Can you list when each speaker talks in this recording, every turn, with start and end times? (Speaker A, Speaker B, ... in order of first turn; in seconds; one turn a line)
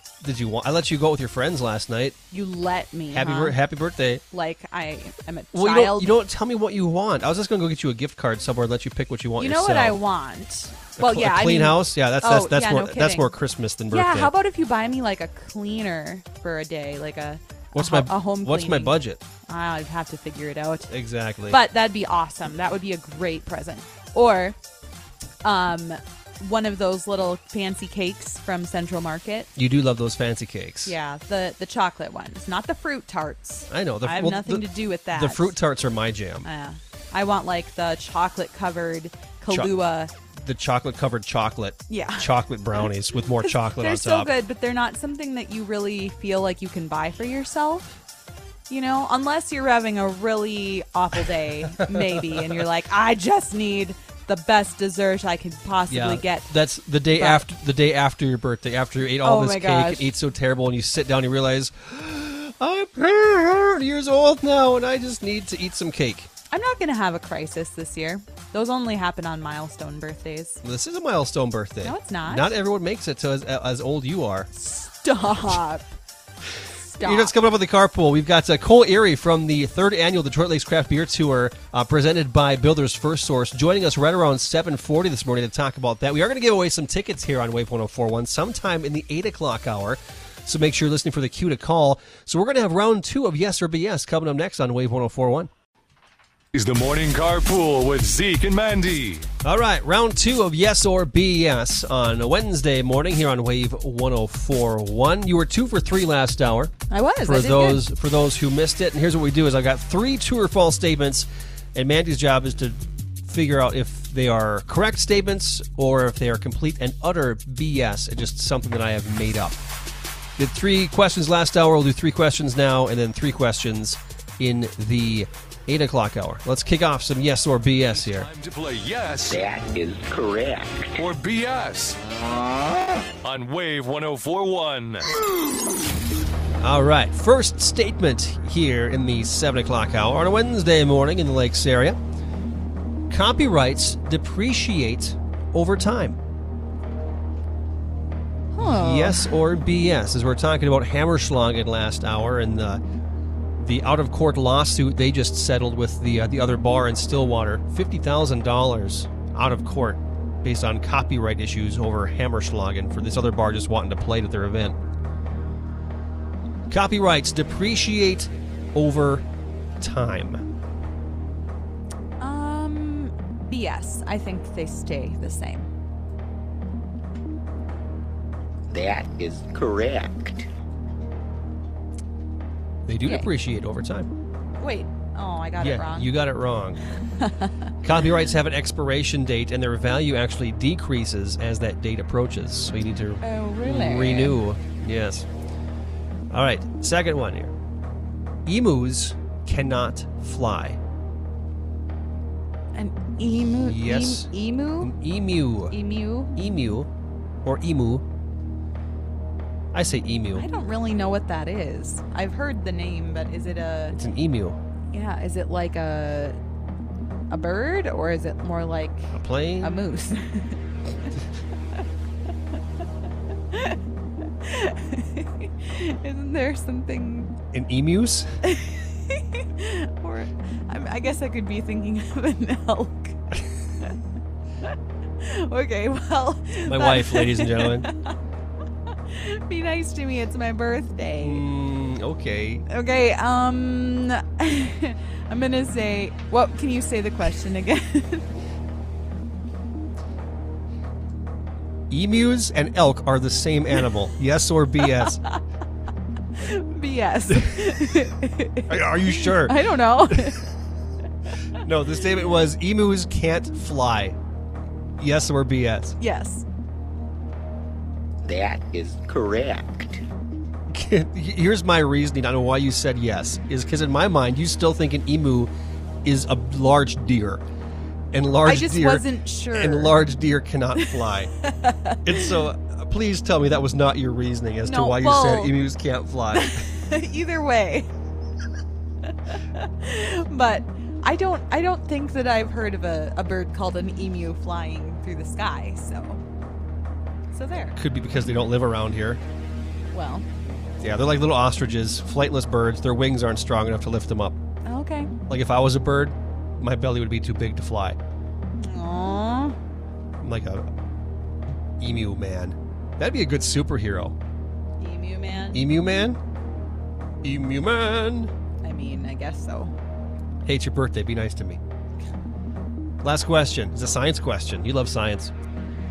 Speaker A: 0.2-2.2
Speaker B: 2.3-3.6
Speaker A: 3.1-4.2
Speaker B: 4.3-6.1
Speaker A: 5.5-10.0
Speaker B: 9.4-13.3
Speaker A: 11.0-14.3
Speaker B: 13.9-20.9
Speaker A: 17.7-19.2
Speaker A: 20.9-21.6
Speaker B: 21.5-24.6
Speaker B: 25.4-29.5
Speaker A: 29.6-30.9
Speaker B: 30.8-35.5
Speaker A: 33.7-36.5
Speaker B: 36.4-40.1
Speaker A: 39.5-39.7
Speaker A: 40.3-44.3
Speaker B: 41.9-47.9
Speaker B: 48.7-56.5
Speaker A: 51.8-52.6
Speaker A: 55.9-66.3
Speaker B: 57.1-57.4
Speaker B: 59.2-60.1
Speaker B: 66.5-70.6
Speaker A: 70.6-74.5
Speaker B: 71.8-72.5
Speaker B: 74.5-75.9
Speaker B: 76.7-77.3
Speaker A: 77.0-95.5
Speaker C: 96.5-99.3
Speaker A: 99.4-119.6
Speaker B: 106.9-107.8
Speaker A: 120.4-128.3
Speaker C: 127.8-129.4
Speaker D: 129.3-131.0
Speaker C: 131.0-132.0
Speaker C: 133.2-135.1
Speaker A: 136.6-142.0
Speaker A: 143.1-146.2
Speaker B: 148.5-149.3
Speaker A: 148.6-152.8
Speaker A: 153.6-164.8
Speaker A: 166.7-169.2
Speaker A: 169.8-170.4
Speaker B: 172.2-175.7
Speaker D: 178.7-180.5
Speaker A: 182.8-184.1
Speaker B: 183.0-183.3
Speaker B: 184.6-186.1
Speaker A: 185.6-186.8
Speaker B: 187.0-187.7
Speaker A: 187.8-195.3
Speaker B: 193.2-194.4
Speaker A: 196.3-197.5
Speaker A: 198.4-200.8
Speaker B: 202.7-204.9
Speaker A: 203.5-205.8
Speaker B: 205.7-206.4
Speaker A: 206.3-206.9
Speaker A: 207.4-208.0
Speaker A: 209.7-210.5
Speaker B: 210.3-214.0
Speaker A: 213.9-214.6
Speaker B: 214.9-216.4
Speaker B: 217.3-221.1
Speaker A: 219.1-219.8
Speaker B: 223.5-223.8
Speaker B: 224.4-227.3
Speaker A: 227.5-228.3
Speaker B: 228.4-233.9
Speaker B: 234.6-238.1
Speaker A: 236.6-237.9
Speaker B: 238.9-241.4
Speaker A: 241.2-242.7
Speaker B: 242.7-248.3
Speaker A: 251.9-255.2
Speaker B: 254.8-255.4
Speaker B: 256.4-260.5
Speaker A: 257.3-257.8
Speaker A: 258.7-260.4
Speaker A: 261.6-264.2
Speaker A: 265.0-266.0
Speaker B: 266.0-266.4
Speaker D: 268.2-270.0
Speaker A: 270.7-275.5
Speaker A: 276.0-277.4
Speaker A: 278.1-281.3
Speaker B: 278.4-280.0
Speaker B: 280.8-282.3
Speaker A: 282.0-286.6
Speaker B: 284.6-285.5
Speaker B: 286.3-287.9
Speaker B: 289.3-296.2
Speaker B: 297.3-297.8
Speaker A: 297.8-299.2
Speaker B: 299.9-300.3
Speaker A: 300.8-304.4
Speaker B: 304.6-305.1
Speaker A: 305.3-308.0
Speaker B: 308.6-309.6
Speaker A: 310.2-310.7
Speaker A: 311.8-314.1
Speaker B: 314.8-315.6
Speaker A: 315.5-316.2
Speaker A: 317.2-318.3
Speaker B: 318.6-319.7
Speaker A: 320.4-321.6
Speaker A: 323.0-325.3